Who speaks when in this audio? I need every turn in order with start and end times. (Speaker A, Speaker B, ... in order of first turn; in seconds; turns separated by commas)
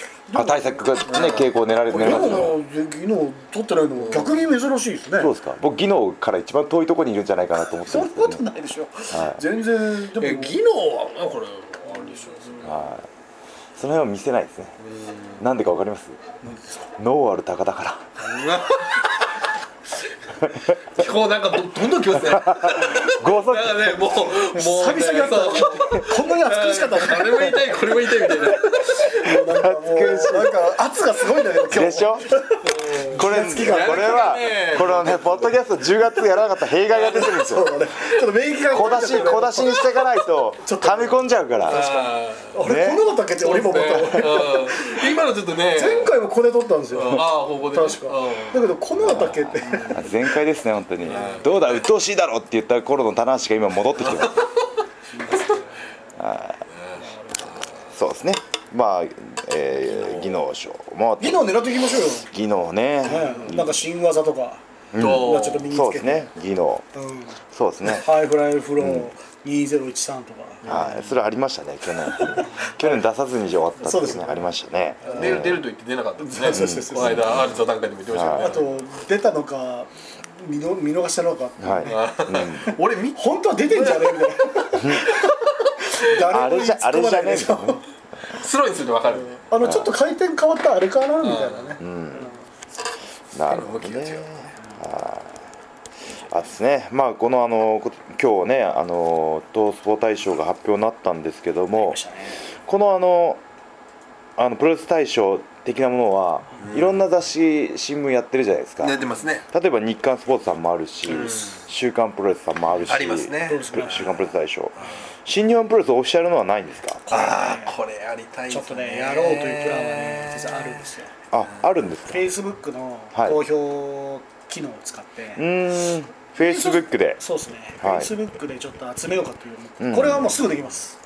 Speaker A: 0.3-1.0, Speaker B: 0.3-2.5, Speaker C: 1.1-2.5, Speaker A: 1.9-5.3, Speaker C: 4.0-4.5, Speaker B: 5.2-8.4, Speaker A: 7.8-10.6, Speaker B: 9.1-9.4, Speaker C: 10.2-12.7, Speaker A: 11.9-12.6, Speaker B: 12.6-13.1, Speaker B: 13.8-14.8, Speaker C: 14.8-15.4, Speaker B: 15.4-16.2, Speaker B: 17.0-18.1, Speaker C: 18.2-19.3, Speaker B: 20.4-20.8, Speaker C: 20.9-29.4, Speaker B: 22.3-24.1, Speaker A: 24.4-34.3, Speaker B: 29.5-30.6, Speaker B: 31.7-32.3, Speaker C: 32.6-35.6, Speaker B: 33.1-37.7, Speaker A: 36.9-39.9, Speaker C: 37.0-37.3, Speaker B: 38.7-41.8, Speaker A: 40.6-50.1, Speaker C: 41.7-42.6, Speaker B: 42.6-43.0, Speaker C: 43.3-46.2, Speaker C: 46.9-50.0, Speaker B: 49.0-54.5, Speaker C: 51.0-51.9, Speaker C: 54.0-54.5, Speaker A: 55.1-55.7, Speaker C: 55.2-55.7, Speaker B: 56.2-56.6, Speaker C: 56.7-57.8, Speaker A: 57.0-57.6, Speaker B: 57.9-63.8, Speaker C: 59.9-60.4, Speaker A: 61.2-62.3, Speaker A: 63.0-66.3, Speaker C: 63.2-63.5, Speaker B: 64.9-66.8, Speaker C: 65.0-65.7, Speaker A: 66.9-70.8, Speaker B: 67.5-68.1, Speaker B: 68.8-69.1, Speaker C: 70.6-71.1, Speaker B: 70.7-75.6, Speaker A: 72.1-73.0, Speaker A: 73.8-74.5, Speaker A: 75.0-75.5, Speaker C: 75.0-78.8, Speaker A: 76.2-77.5, Speaker B: 76.5-77.5, Speaker B: 78.1-78.5, Speaker A: 78.3-87.8, Speaker B: 81.6-82.7, Speaker C: 81.8-84.3, Speaker B: 84.7-85.1, Speaker C: 85.1-86.1, Speaker B: 86.3-87.8, Speaker C: 88.3-89.4, Speaker A: 89.0-92.3, Speaker B: 89.6-89.9, Speaker C: 91.2-91.8, Speaker B: 91.8-92.3, Speaker B: 93.3-95.4, Speaker C: 93.5-94.5, Speaker B: 96.3-102.0, Speaker A: 101.8-102.4, Speaker B: 102.6-103.4, Speaker B: 104.4-117.1, Speaker C: 106.6-107.0, Speaker C: 108.8-109.5, Speaker C: 111.1-111.7, Speaker C: 112.9-114.1, Speaker A: 113.4-114.3, Speaker A: 117.1-117.8, Speaker C: 117.1-120.9, Speaker A: 118.5-121.1, Speaker B: 121.3-122.3, Speaker A: 122.1-125.4, Speaker B: 123.1-123.4, Speaker B: 125.3-127.2, Speaker A: 126.4-131.0, Speaker B: 127.8-128.1, Speaker B: 129.8-130.5